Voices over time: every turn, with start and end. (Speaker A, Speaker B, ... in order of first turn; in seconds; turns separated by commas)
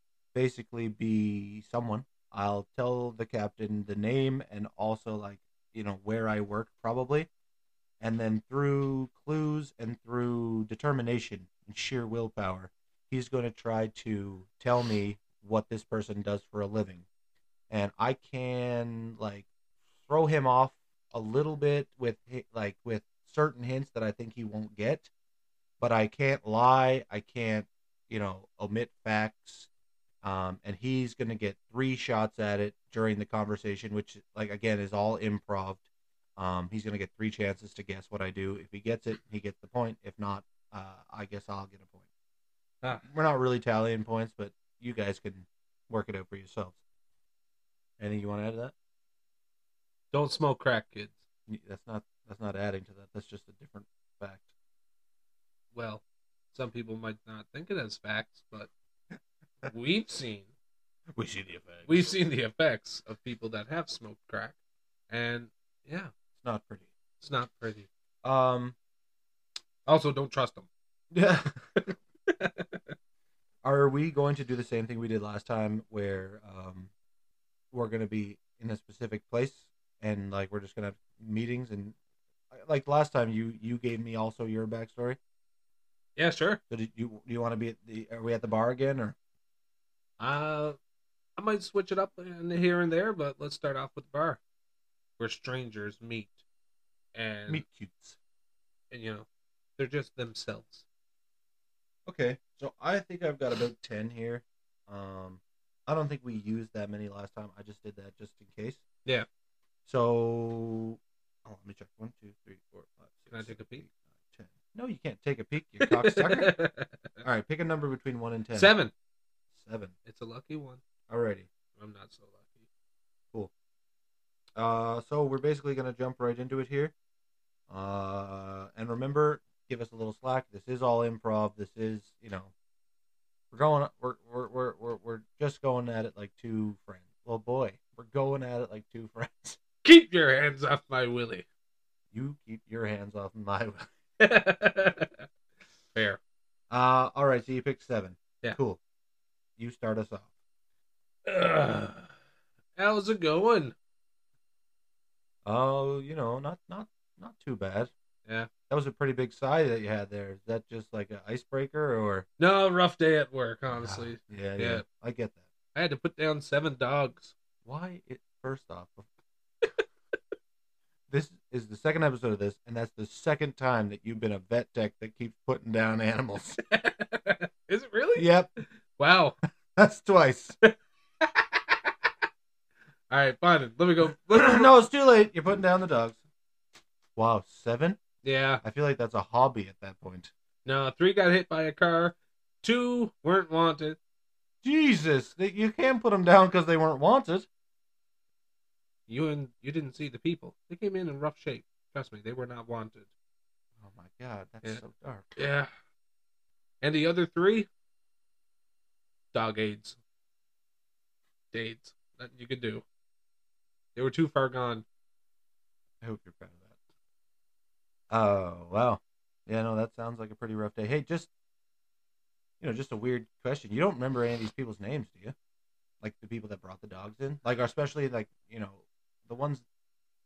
Speaker A: 0.3-7.3, Speaker A: 8.0-17.1, Speaker A: 17.7-19.5, Speaker A: 20.0-25.1, Speaker A: 25.8-29.7, Speaker A: 30.2-35.9, Speaker A: 36.4-42.0, Speaker A: 43.0-46.8, Speaker A: 48.0-48.7, Speaker B: 50.1-51.2, Speaker A: 51.5-54.5, Speaker B: 55.7-58.7, Speaker B: 59.6-60.5, Speaker A: 61.1-62.1, Speaker B: 61.9-64.6, Speaker B: 65.1-66.1, Speaker A: 66.4-66.9, Speaker B: 67.2-67.9, Speaker A: 68.2-68.8, Speaker B: 69.8-70.7, Speaker A: 71.1-71.6, Speaker B: 71.8-72.9, Speaker A: 73.6-76.9, Speaker A: 77.7-82.0, Speaker A: 82.5-85.2, Speaker B: 86.2-86.6, Speaker A: 86.7-89.2, Speaker B: 90.2-90.8, Speaker B: 91.4-94.4, Speaker B: 95.2-96.4, Speaker B: 97.1-97.6, Speaker A: 97.5-98.2, Speaker B: 98.9-99.3, Speaker B: 99.8-100.8, Speaker A: 102.0-108.8, Speaker A: 109.8-116.5, Speaker B: 113.3-113.8, Speaker B: 115.8-117.0, Speaker A: 117.2-118.7, Speaker B: 118.5-118.9, Speaker A: 119.5-119.9, Speaker B: 120.0-120.8, Speaker A: 121.1-121.5, Speaker B: 121.8-122.6, Speaker A: 124.5-126.9, Speaker A: 127.7-132.5, Speaker A: 133.5-139.6, Speaker B: 139.8-141.4, Speaker A: 142.1-143.9, Speaker B: 144.2-145.2, Speaker B: 145.9-146.2, Speaker A: 146.7-148.8, Speaker A: 149.6-150.3, Speaker B: 151.2-152.1, Speaker B: 152.8-153.7, Speaker A: 155.4-157.9, Speaker A: 158.7-162.2, Speaker B: 162.4-164.8, Speaker A: 163.7-165.4, Speaker B: 165.7-167.3, Speaker A: 167.6-169.1, Speaker A: 171.1-176.6, Speaker B: 176.6-179.4, Speaker A: 178.2-178.5, Speaker A: 179.8-180.6, Speaker B: 180.6-181.9, Speaker B: 183.1-184.7, Speaker A: 184.3-186.2, Speaker A: 187.2-188.0, Speaker B: 188.2-188.6, Speaker A: 188.6-190.3, Speaker B: 190.6-194.0, Speaker A: 194.6-197.5, Speaker B: 199.1-203.1, Speaker A: 203.8-205.4, Speaker B: 205.3-205.7, Speaker B: 206.8-207.7, Speaker B: 209.3-210.0, Speaker B: 211.5-212.8, Speaker B: 213.9-214.8, Speaker A: 216.0-216.7, Speaker A: 218.1-221.3, Speaker A: 222.6-225.3, Speaker A: 226.0-229.6